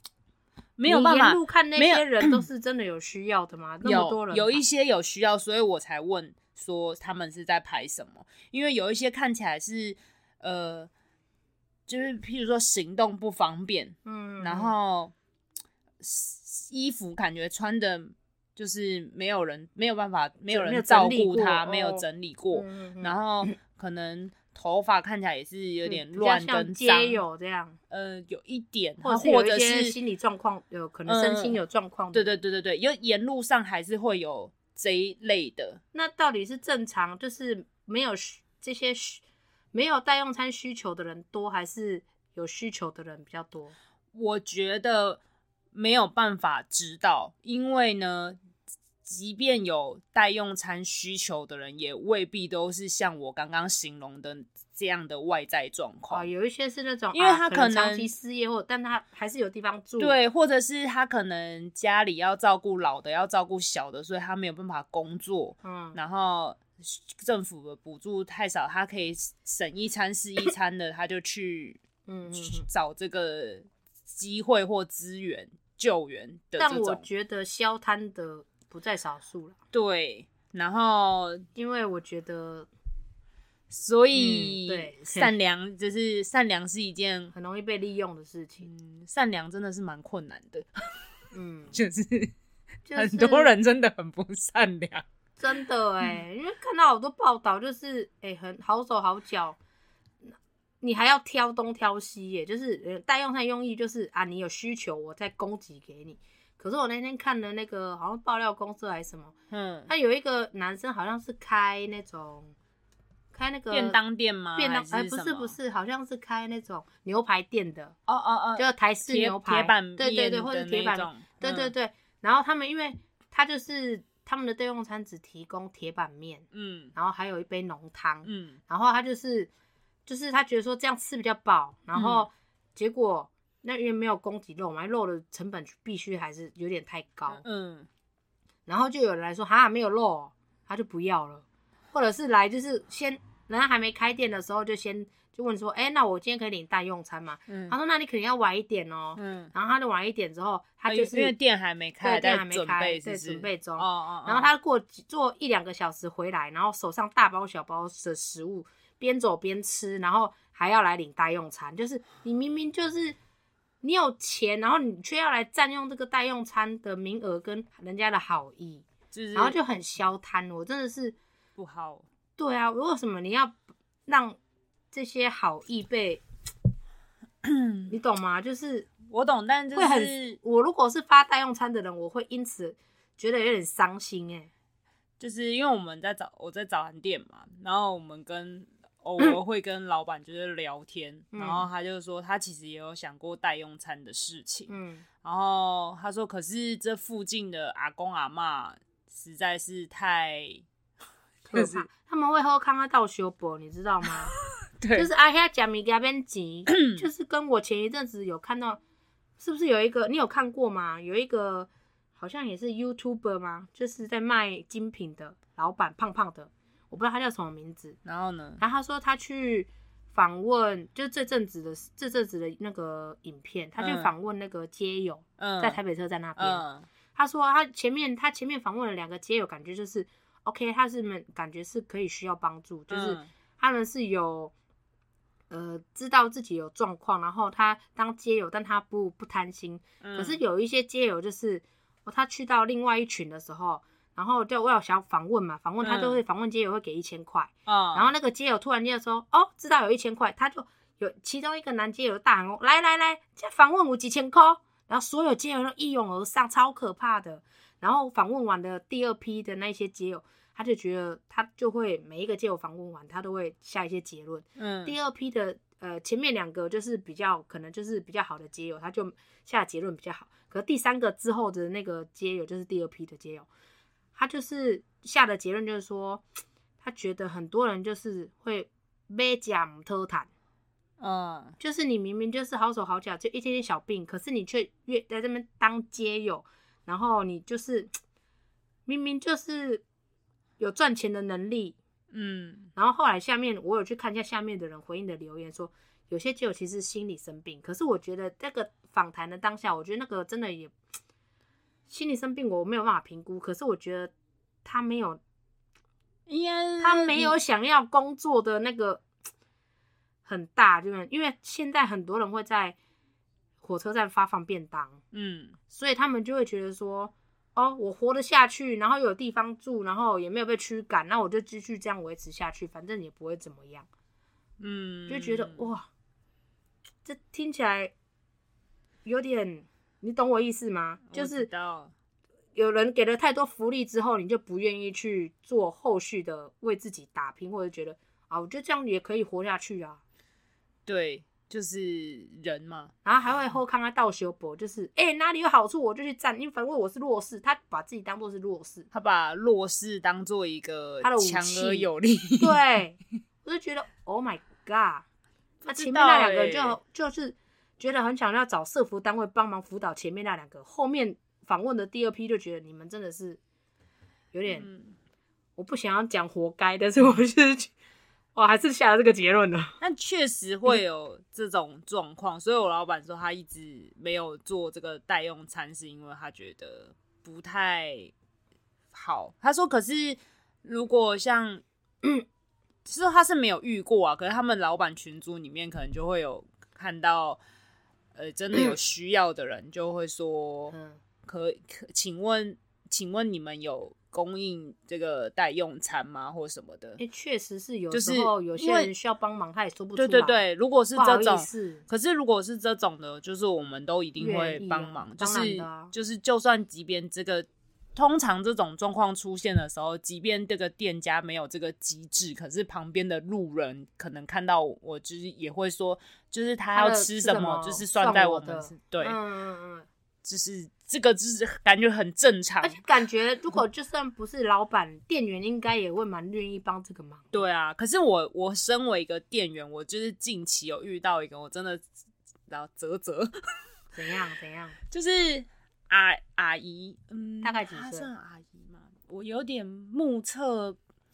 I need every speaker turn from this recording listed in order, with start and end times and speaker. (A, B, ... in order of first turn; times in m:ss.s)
0:00.8-0:02.4 A
0:00.8-0:04.6 B
0:03.8-0:10.9 A
0:11.9-0:15.1 A
0:14.0-0:14.7 B
0:16.0-0:27.2 A
0:20.5-0:23.5 B
0:25.8-0:27.8 B
0:27.9-0:30.0 A
0:29.0-0:32.3 B
0:31.0-0:31.6 A
0:32.1-0:35.8 A
0:35.9-0:39.2 B
0:39.7-0:43.7 B
0:44.1-0:45.2 A
0:45.7-0:48.4 A
0:49.0-0:56.3 A
0:56.1-1:00.2 B
0:57.1-0:58.1 A
1:00.0-1:17.0 A
1:05.6-1:06.0 B
1:12.1-1:12.7 B
1:16.6-1:19.6 B
1:19.7-1:21.5 A
1:21.5-1:22.7 B
1:23.7-1:27.3 A
1:24.1-1:25.3 B
1:27.3-1:28.7 B
1:28.6-1:31.1 A
1:31.3-1:31.7 B
1:31.7-1:32.3 A
1:32.9-1:33.5 B
1:33.0-1:35.0 A
1:35.4-1:39.6 B
1:40.2-1:49.3 B
1:49.5-1:49.9 A
1:49.9-1:52.5 B
1:53.3-1:54.0 B
1:53.7-1:55.6 A
1:54.6-1:57.9 B
1:58.1-2:01.7 A
1:58.6-2:09.5 B
2:06.5-2:06.9 A
2:08.2-2:08.6 A
2:10.0-2:17.4 B
2:11.9-2:12.3 A
2:17.3-2:17.9 A
2:18.7-2:31.3 B
2:27.5-2:27.8 A
2:29.2-2:29.5 A
2:30.9-2:34.5 A
2:32.0-2:43.2 B
2:43.8-2:51.1 B
2:49.1-2:49.6 A
2:51.6-2:52.0 A
2:52.4-2:54.4 B
2:54.9-2:56.2 B
2:57.4-2:57.9 A
2:57.9-2:58.9 B
2:59.0-3:00.4 A
2:59.7-3:04.5 B
3:05.2-3:14.7 A
3:11.3-3:11.7 B
3:14.7-3:15.0 B
3:15.2-3:20.6 A
3:21.4-3:24.3 B
3:21.5-3:21.9 A
3:24.8-3:25.1 A
3:24.9-3:28.8 B
3:26.7-3:27.0 A
3:29.4-3:38.0 B
3:38.0-3:38.6 A
3:38.6-3:46.6 B
3:43.8-3:44.1 A
3:45.4-3:45.8 A
3:46.4-3:46.9 A
3:47.1-3:54.5 B
3:52.9-3:53.3 A
3:55.5-4:33.5 B
4:00.0-4:00.4 A
4:05.8-4:06.2 A
4:07.7-4:08.1 A
4:24.6-4:24.9 A
4:34.2-4:36.2 B
4:36.8-4:40.3 B
4:41.0-4:41.6 A
4:41.6-4:47.9 B
4:48.8-4:49.8 B
4:50.6-4:51.8 B
4:52.1-4:52.7 A
4:52.8-5:00.7 B
5:01.9-5:04.1 B
5:04.6-5:05.2 B
5:06.3-5:07.4 A
5:06.8-5:09.0 B
5:10.2-5:12.8 B
5:13.6-5:15.0 B
5:15.1-5:15.6 A
5:15.7-5:23.9 B
5:24.6-5:25.7 A
5:25.1-5:25.9 B
5:27.0-5:27.9 B
5:29.0-5:31.5 B
5:31.1-5:31.9 A
5:32.5-5:40.0 B
5:40.8-5:42.9 A
5:43.0-5:48.9 B
5:48.9-5:52.6 A
5:51.0-5:51.9 B
5:52.4-5:55.0 B
5:55.6-5:56.8 A
5:55.6-6:03.4 B
6:04.3-6:04.7 B
6:04.5-6:05.0 A
6:05.6-6:07.7 B
6:08.3-6:09.8 B
6:09.8-6:18.1 A
6:18.9-6:21.6 A
6:22.8-6:27.4 A
6:28.1-6:37.0 A
6:30.7-6:31.0 B
6:37.0-6:40.4 B
6:37.9-6:38.9 A
6:40.0-6:59.2 A
6:40.9-6:41.8 B
6:44.2-6:45.9 B
6:56.7-6:59.9 B
7:00.2-7:02.9 A
7:02.6-7:07.3 B
7:07.3-7:11.8 A
7:12.5-7:13.3 A
7:13.9-7:14.8 B
7:14.9-7:20.8 A
7:17.4-7:18.1 B